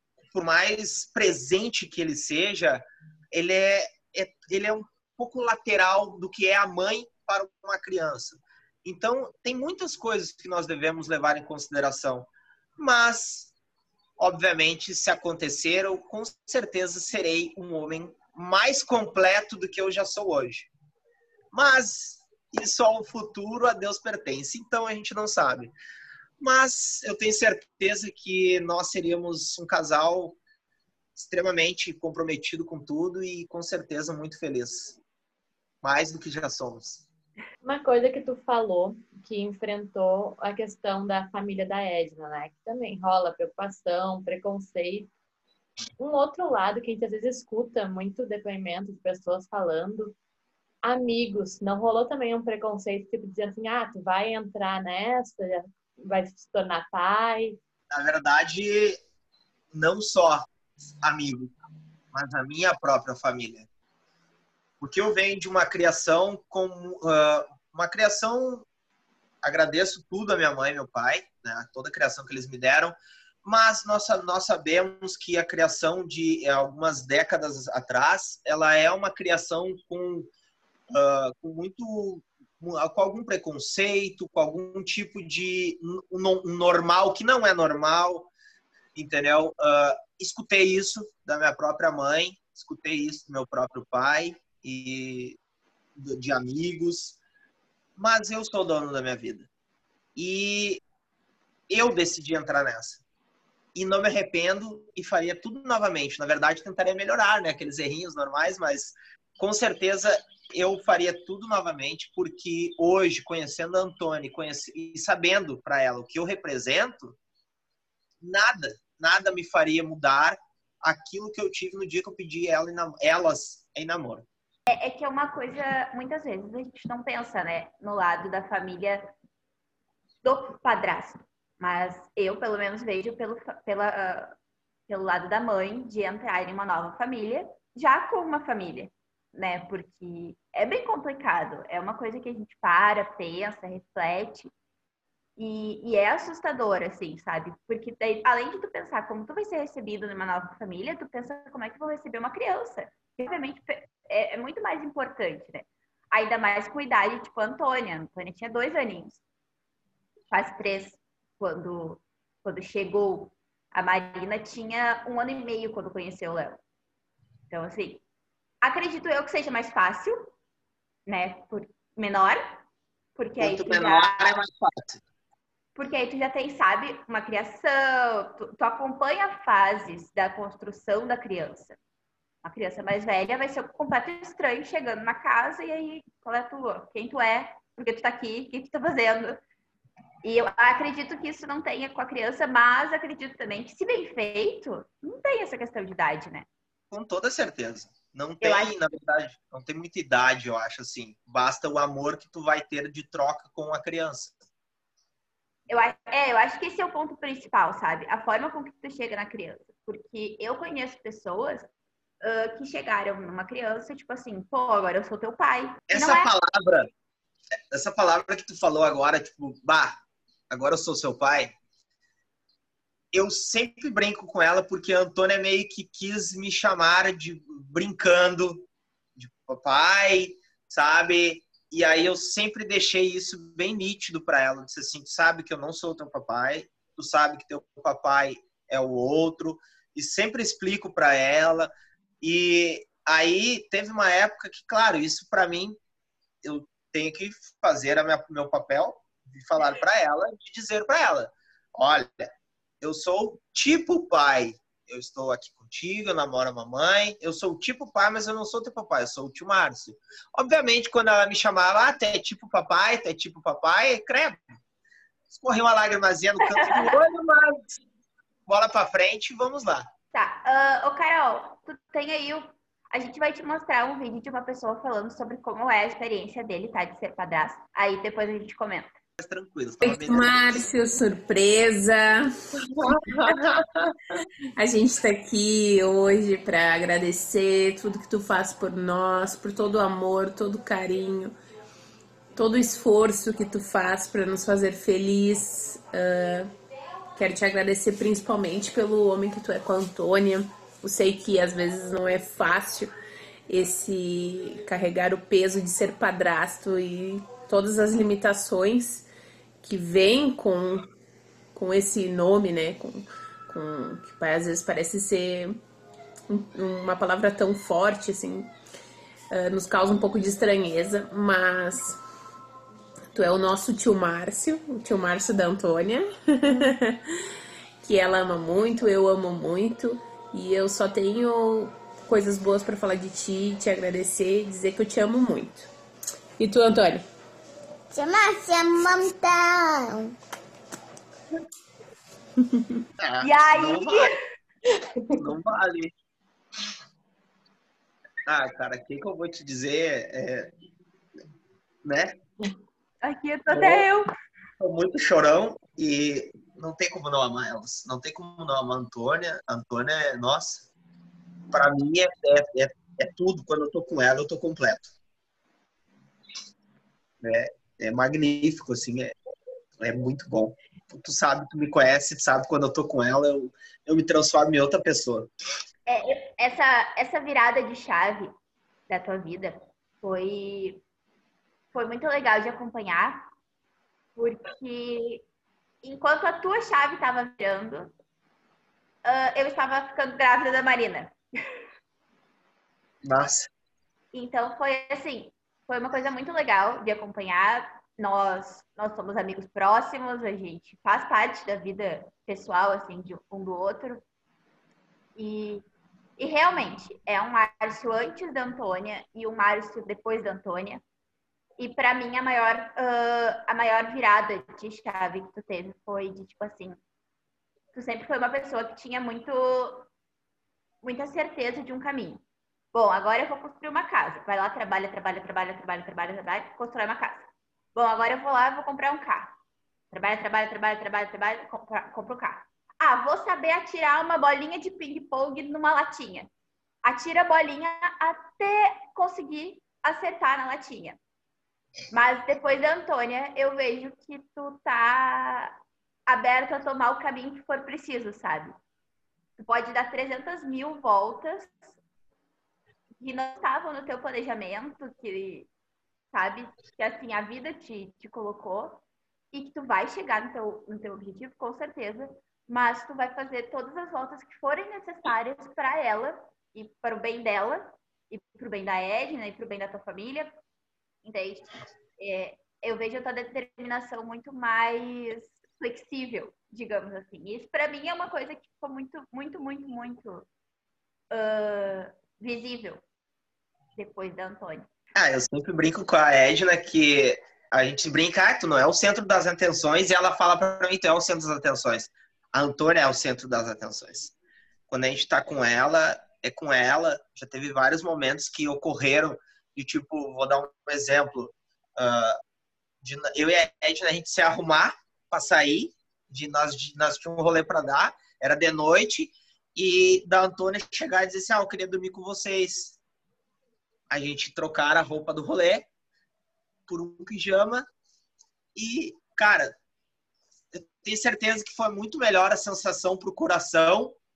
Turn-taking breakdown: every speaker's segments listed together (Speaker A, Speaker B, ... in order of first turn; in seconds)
Speaker A: 0.3-13.5, 14.2-20.7, 21.5-25.7, 26.4-30.4, 31.1-35.0, 35.8-37.0, 57.9-59.0, 59.7-60.5, 61.0-61.5, 62.1-63.7, 64.8-68.7, 69.4-80.3, 80.9-88.3, 88.9-95.4, 96.0-97.2, 98.0-99.5, 100.2-100.8, 101.7-103.0, 103.7-117.2, 118.2-124.2, 173.4-175.0, 196.9-204.3, 215.9-216.9, 217.7-220.0, 220.5-221.5, 223.1-245.8, 246.4-264.6, 265.3-267.8, 268.5-269.9, 279.2-280.6, 282.6-284.2, 343.0-344.2, 345.2-345.9, 348.2-350.5, 351.8-352.1, 353.5-353.9, 354.6-360.7, 361.5-364.9, 367.2-369.1, 369.8-375.3, 393.1-393.5, 484.9-494.1, 494.7-502.2, 502.8-512.8, 513.9-515.7, 516.7-517.6, 518.5-519.5, 520.5-524.0
Speaker B: 37.6-45.1, 46.0-50.1, 50.8-57.6
Speaker C: 124.7-129.0, 130.2-134.3, 134.9-144.5, 145.4-159.2, 160.3-166.6, 167.5-168.0, 168.6-170.3, 171.1-172.6, 173.2-174.3, 175.7-181.8, 182.4-189.4, 190.2-196.5, 198.4-198.7, 205.7-211.7, 212.2-216.3, 266.6-266.9, 270.1-278.9, 343.2-344.2, 353.0-354.1, 375.9-378.3, 378.9-380.8, 381.7-383.2, 384.2-385.2, 385.8-387.9, 389.0-391.1, 394.1-404.0, 405.1-405.6, 406.2-410.8, 411.6-416.8, 417.7-419.9, 420.8-422.2, 422.7-429.3, 429.9-436.3, 436.8-441.0, 441.9-448.5, 449.4-451.6, 453.0-455.5, 456.1-470.4, 471.0-480.2, 481.1-482.8, 483.8-484.7
Speaker D: 279.8-282.3, 282.9-283.4, 284.6-291.3, 292.3-296.5, 297.1-302.9, 303.5-309.1, 309.6-310.9, 311.5-315.6, 316.3-318.5, 319.3-322.0, 323.1-327.2, 327.8-335.7, 336.4-337.0
Speaker E: 337.9-340.1